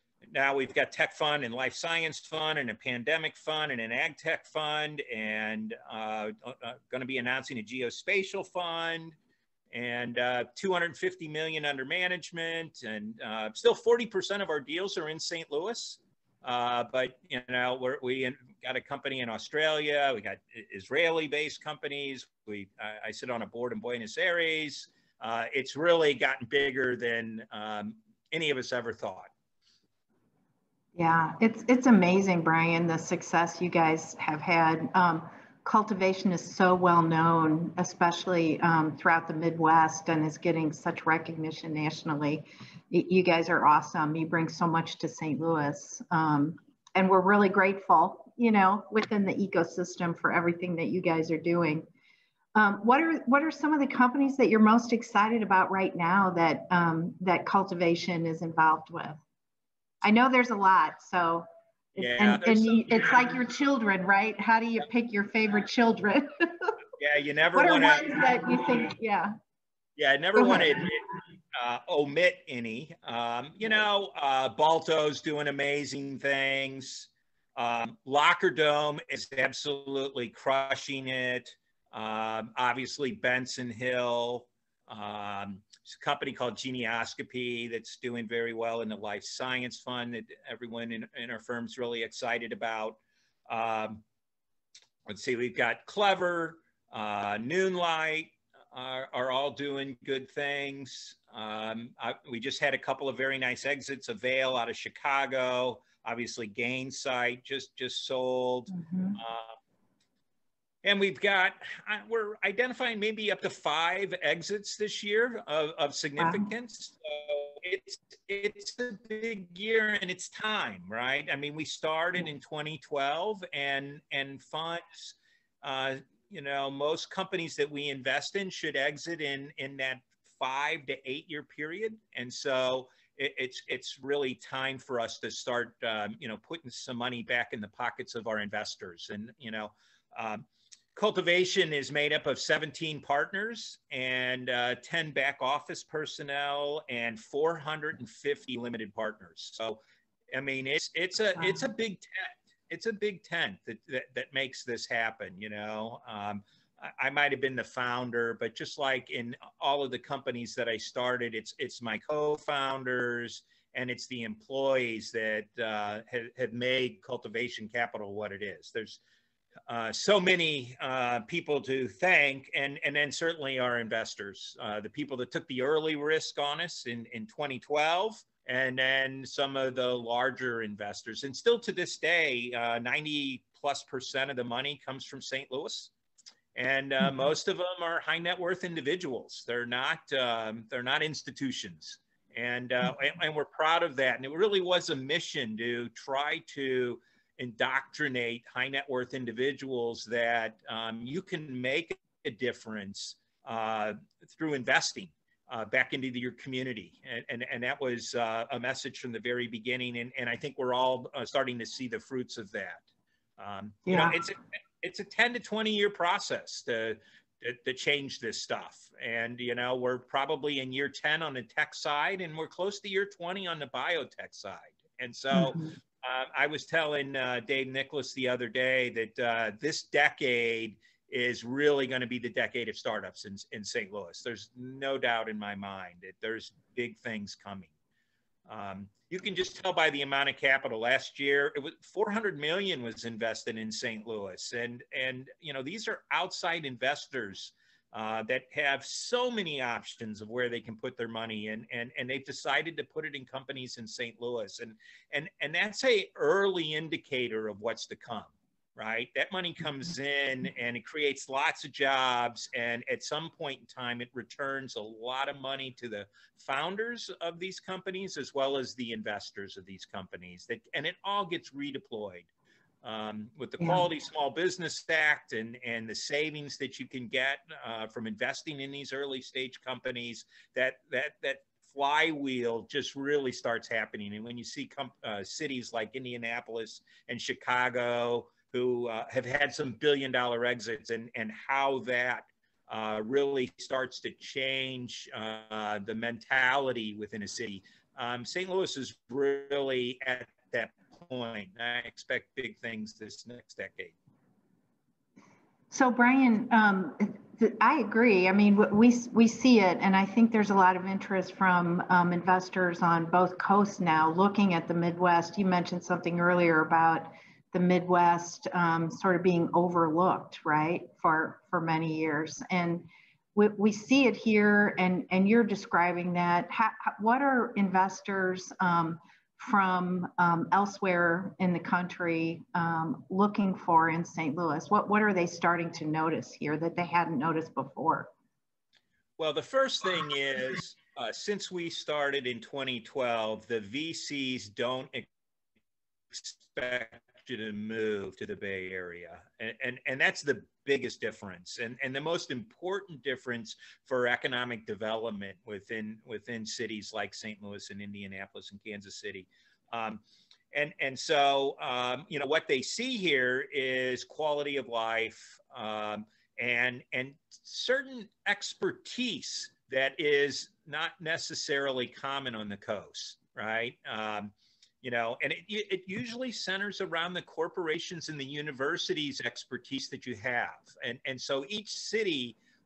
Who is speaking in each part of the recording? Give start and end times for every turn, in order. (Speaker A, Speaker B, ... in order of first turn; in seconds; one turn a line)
Speaker A: 0.3-9.2
Speaker A: 9.7-29.3
Speaker B: 31.0-51.9
Speaker B: 52.5-59.2
Speaker B: 60.0-66.8
Speaker A: 62.0-63.3
Speaker A: 67.0-68.2
Speaker B: 67.5-69.3
Speaker A: 70.0-94.0
Speaker B: 70.3-70.8
Speaker A: 95.1-109.6
Speaker B: 108.7-109.2
Speaker A: 110.8-149.8
Speaker B: 116.2-116.5
Speaker A: 150.3-169.0
Speaker A: 169.7-185.9
Speaker A: 186.6-212.8
Speaker B: 187.0-187.3
Speaker A: 213.4-237.7
Speaker B: 213.9-214.2
Speaker B: 225.3-225.8
Speaker A: 238.5-272.3
Speaker A: 272.8-303.9
Speaker B: 305.7-338.1
Speaker A: 339.2-345.1
Speaker A: 346.1-360.0
Speaker A: 360.5-382.4